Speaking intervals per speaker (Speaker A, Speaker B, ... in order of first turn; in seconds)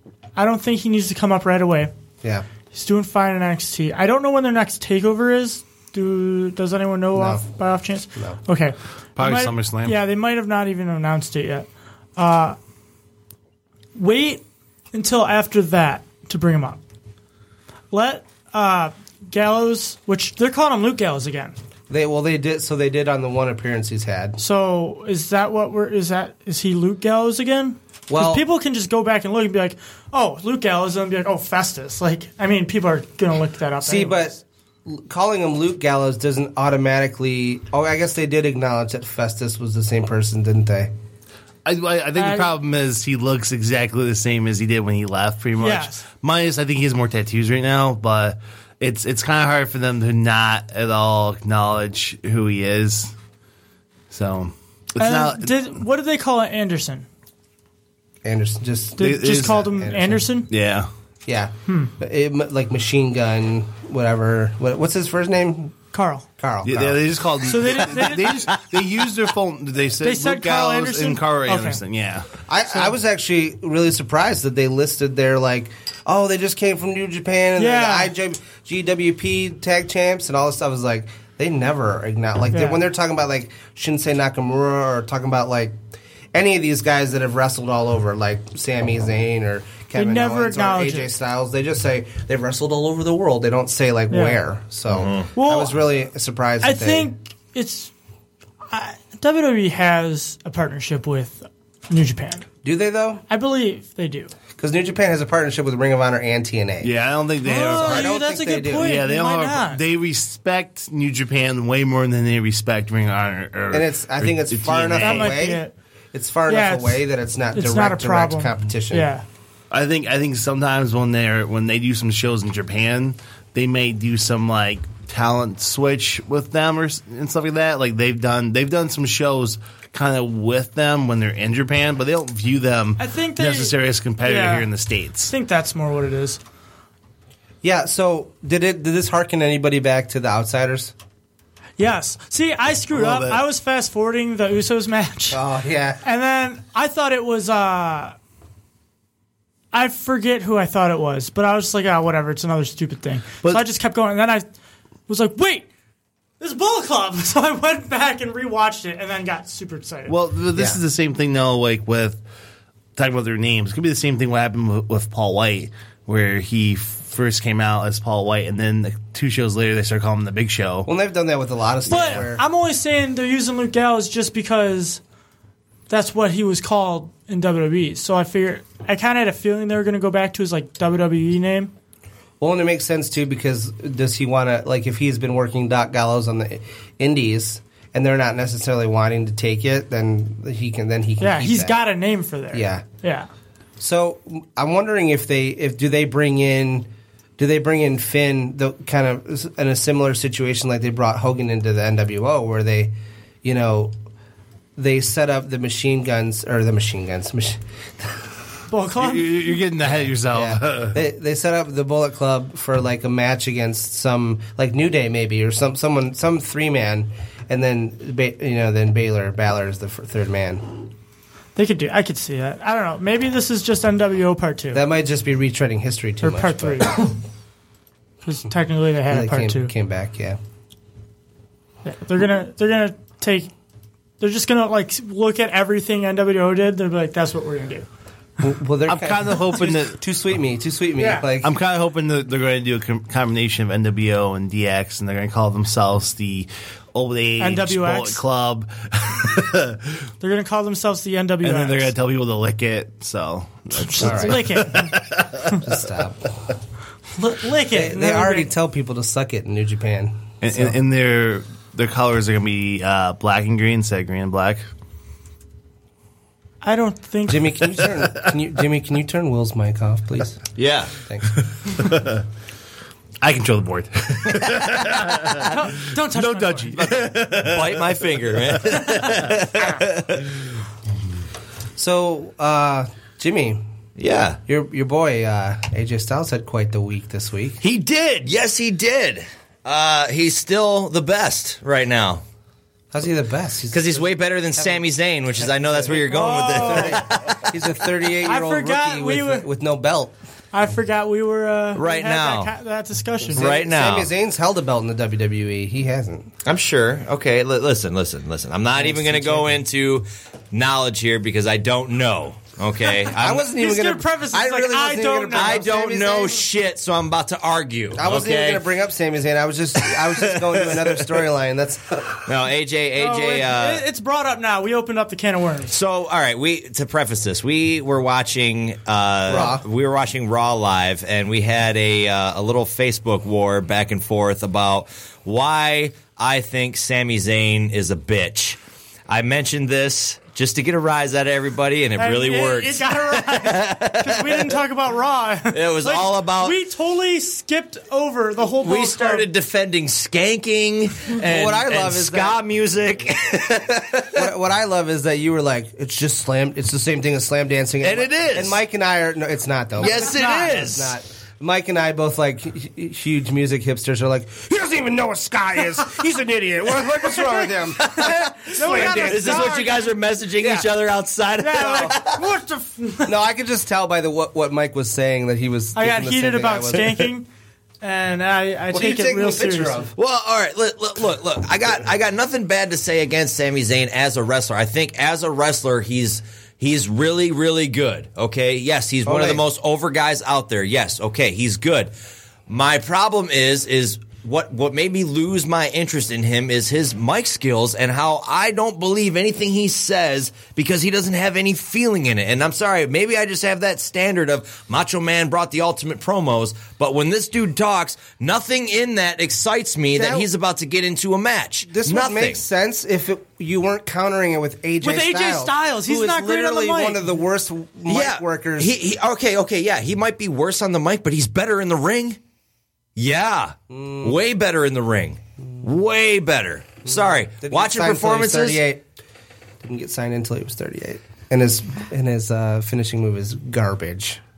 Speaker A: 0.3-1.9, 2.7-12.6, 13.9-14.4, 14.9-16.8, 17.9-21.6, 24.4-34.3, 42.1-42.5, 45.6-46.0, 55.0-57.1, 59.0-60.5, 61.7-61.9, 65.9-66.2, 67.4-68.4, 70.0-71.8, 77.6-78.1, 82.5-82.8, 89.9-91.1, 94.1-94.4, 95.3-95.7, 96.6-97.9, 98.7-102.4, 103.3-104.3, 107.4-109.8, 115.0-115.7, 116.5-119.2, 133.0-134.7, 135.3-136.4, 141.8-145.4, 146.0-148.1, 149.7-154.4, 155.1-155.7, 156.4-160.1, 171.9-175.0, 175.9-181.7, 191.2-193.3, 208.7-209.5, 221.6-224.8, 226.2-227.1, 228.2-229.7, 231.8-233.5, 234.2-237.9, 241.0-241.2, 247.4-248.2, 250.2-251.9, 253.7-255.6, 257.1-258.5, 266.6-267.6, 275.4-276.7, 295.9-297.1, 298.2-299.5, 300.5-303.5, 313.5-315.7, 323.0-325.7, 342.0-349.2, 359.8-360.6, 367.8-369.9, 371.4-373.1, 375.7-377.3, 377.8-379.8, 414.8-417.1
Speaker B: 7.1-7.4, 21.9-24.4, 28.1-28.4, 33.8-40.9, 58.2-60.3, 61.2-65.8, 66.4-67.0, 72.5-85.8, 86.3-97.1, 102.6-103.2, 104.6-106.9, 107.7-109.0, 113.7-119.1, 137.6-140.9, 145.3-146.0, 170.8-172.4, 182.4-191.8, 192.5-192.8, 193.8-203.9, 204.8-208.1, 210.3-220.8, 224.7-227.1, 229.1-230.4, 238.4-241.5, 254.0-254.6, 255.6-256.3, 257.7-260.8, 267.3-270.4, 271.1-271.3, 281.8-283.6, 284.5-287.6, 292.9-300.1, 303.3-306.3, 308.7-309.6, 313.2-316.4, 317.9-322.1, 329.3-329.6, 351.1-352.4, 354.1-369.7, 370.4-370.7, 371.5-371.9, 373.0-377.1, 378.7-379.9, 389.0-389.4, 409.9-410.3, 411.6-418.7, 423.7-424.2, 426.8-428.9, 429.6-434.2
Speaker C: 9.2-10.0, 41.6-53.1, 54.1-55.6, 59.0-59.6, 60.5-60.9, 66.6-72.3, 106.8-108.1, 108.8-115.3, 119.7-135.3, 142.9-143.4, 160.1-162.2, 162.9-170.9, 171.9-172.2, 209.0-211.0, 238.8-240.0, 241.4-250.0, 251.4-255.6, 260.4-264.6, 271.7-272.2, 273.2-275.5, 276.1-279.2
Speaker D: 94.9-95.2, 270.6-270.9, 274.4-275.4, 276.8-280.3, 284.0-284.4, 287.6-292.2, 293.7-297.4, 301.7-302.5, 303.3-304.1, 306.4-313.5, 315.3-318.6, 319.9-321.0, 322.2-323.8, 325.7-344.5, 345.5-346.6, 348.6-354.3, 357.8-358.6, 359.8-360.9, 367.9-372.3, 379.9-391.9, 392.5-412.4, 417.9-422.2, 422.9-428.6